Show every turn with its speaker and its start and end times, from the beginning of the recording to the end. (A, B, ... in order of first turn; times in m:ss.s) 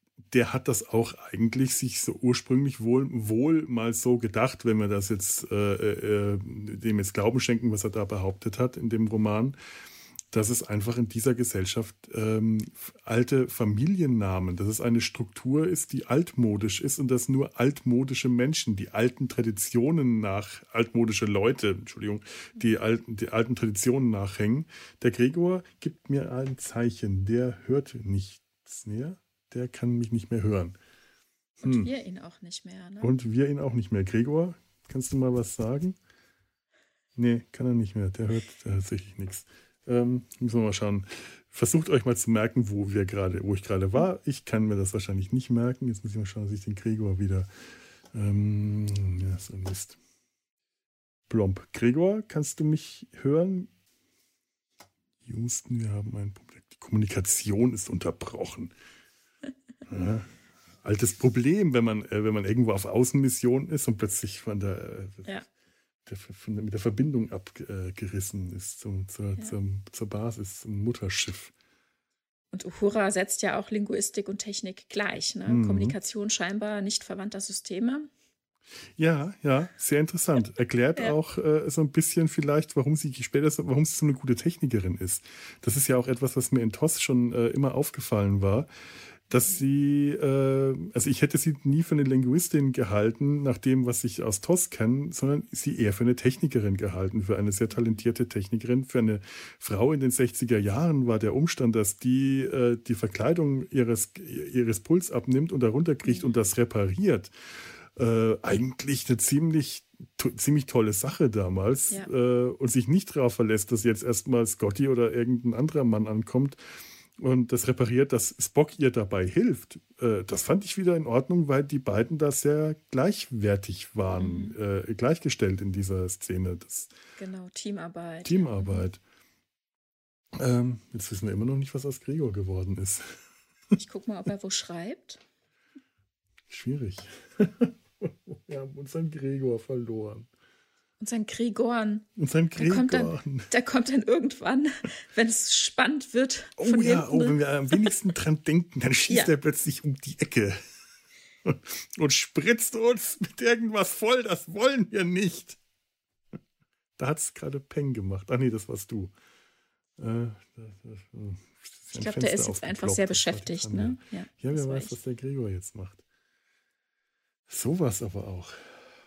0:00.3-0:09.6 A
0:10.3-0:30.8 A
0:31.6-0:31.9 A
0:31.6-0:33.1 B
0:33.0-0:36.0 A
0:37.2-0:47.5 A
0:48.1-0:50.0 A
0:51.3-0:53.7 A
0:55.3-0:58.7 A
0:59.9-1:00.3 A
1:00.8-1:05.3 A
1:06.1-1:11.5 A
1:12.5-1:18.1 B
1:15.5-1:15.9 A
1:19.0-1:28.7 A
1:29.3-1:47.3 A
1:48.0-1:56.6 A
1:57.2-2:06.9 A
2:04.1-2:04.6 B
2:07.2-2:08.9 B
2:08.2-2:09.0 A
2:10.4-2:13.2 A
2:13.8-2:15.2 B
2:16.5-2:20.3 A
2:21.0-2:27.9 B
2:22.2-2:23.5 A
2:26.6-2:30.6 A
2:31.4-2:35.6 A
2:37.0-2:39.1 A
2:40.0-2:46.0 A
2:42.0-2:44.9 B
2:47.5-2:48.6 A